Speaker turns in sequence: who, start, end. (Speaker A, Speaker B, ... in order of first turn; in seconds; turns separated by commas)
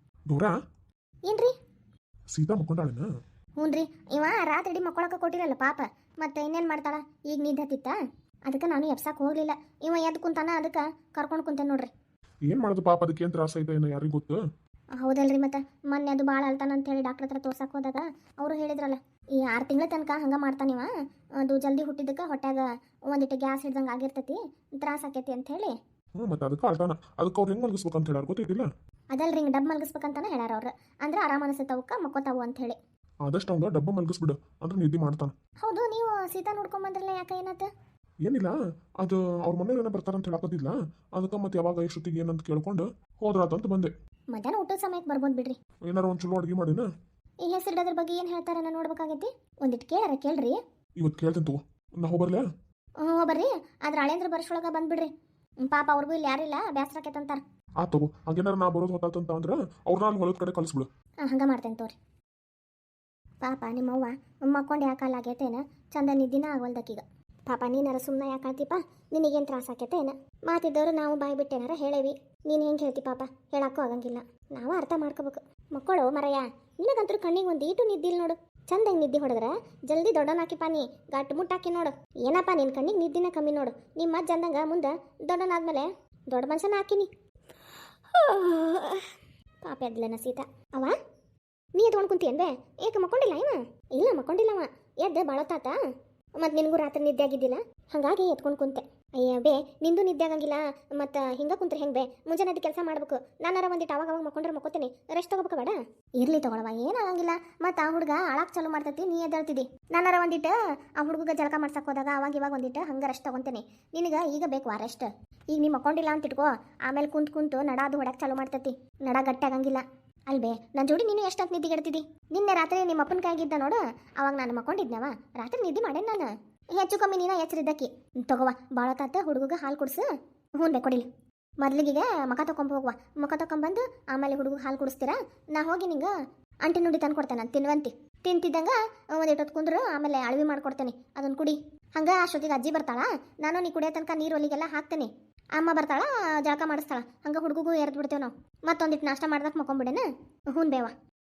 Speaker A: 0.3-0.6, Speaker B: 1.3-1.5, Speaker A: 2.3-3.1, Speaker B: 3.6-8.0, Speaker B: 8.5-11.9, Speaker A: 12.4-14.4, Speaker B: 15.0-20.9, Speaker B: 21.4-25.7, Speaker A: 26.2-28.7, Speaker B: 29.1-32.8, Speaker A: 33.2-35.3, Speaker B: 35.6-37.7, Speaker A: 38.2-43.9, Speaker B: 44.3-45.6, Speaker A: 45.9-46.9, Speaker B: 47.4-50.6, Speaker A: 51.0-52.4, Speaker B: 53.0-55.1, Speaker B: 55.6-57.4, Speaker A: 57.8-60.9, Speaker B: 61.2-61.9, Speaker B: 63.4-87.1, Speaker B: 88.1-90.9, Speaker B: 91.8-95.7, Speaker B: 96.4-130.1, Speaker B: 130.6-131.1, Speaker B: 131.6-136.1, Speaker B: 136.6-150.9